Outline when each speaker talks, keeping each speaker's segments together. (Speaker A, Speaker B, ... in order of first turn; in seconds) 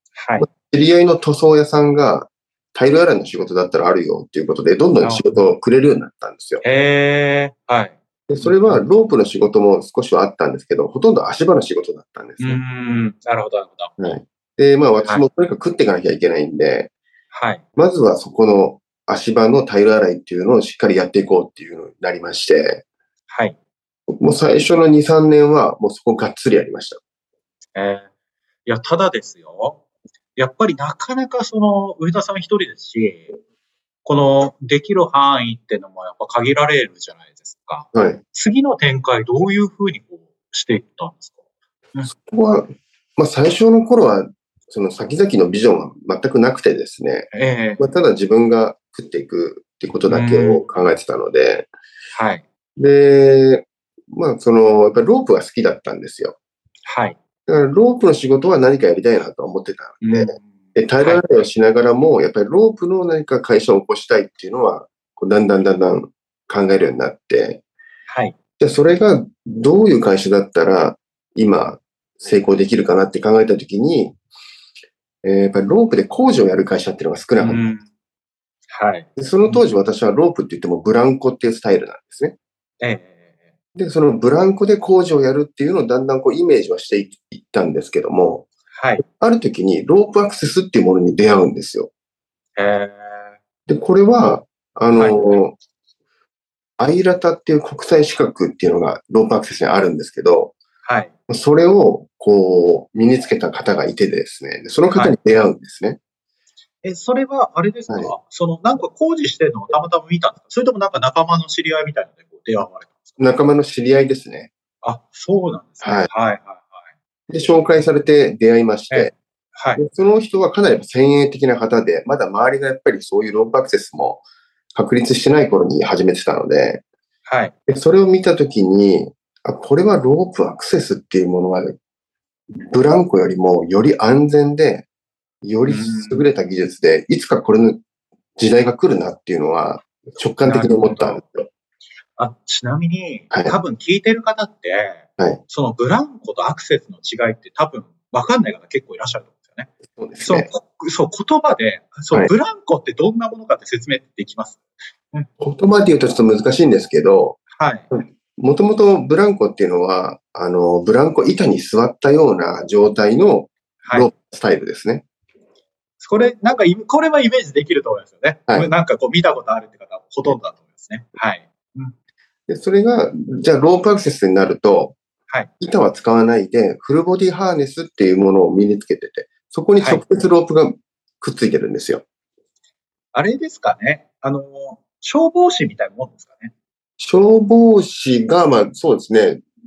Speaker A: 0.1-0.5, 5.0-5.4, 6.6-8.8, 12.4-13.9, 17.3-17.6, 23.3-23.6, 27.8-28.1, 28.7-29.8, 30.4-33.3, 34.0-41.4, 47.3-47.9, 50.1-50.8, 52.1-52.4, 56.9-57.2, 60.0-61.5, 68.1-68.4, 77.4-77.9, 78.7-79.7, 82.8-83.5, 88.7-89.0, 92.6-93.3, 94.9-95.4, 100.8-101.1, 106.8-113.3, 114.8-116.8, 118.9-119.8, 127.3-127.5, 135.7-136.3, 140.4-141.2, 142.2-154.6, 157.6-157.9, 163.8-164.1, 166.0-171.9, 179.8-180.0, 183.1-186.5
Speaker B: 0.4-6.6, 8.3-12.6, 14.0-16.9, 17.8-22.8, 24.2-27.0, 37.9-38.2, 42.0-51.7, 52.8-56.4, 57.5-67.6, 68.6-74.2, 75.2-77.6, 79.2-82.3, 83.8-88.5, 89.1-91.9, 93.7-95.5, 96.8-100.6, 101.3-106.0, 107.9-108.2, 113.2-114.5, 115.8-116.1, 117.3-119.1, 119.8-124.2, 124.8-126.8, 127.7-131.8, 132.7-134.9, 135.4-137.8, 138.4-141.5, 150.0-150.5, 155.4-157.4, 157.9-165.1, 172.5-175.0, 175.6-182.0, 187.0-189.4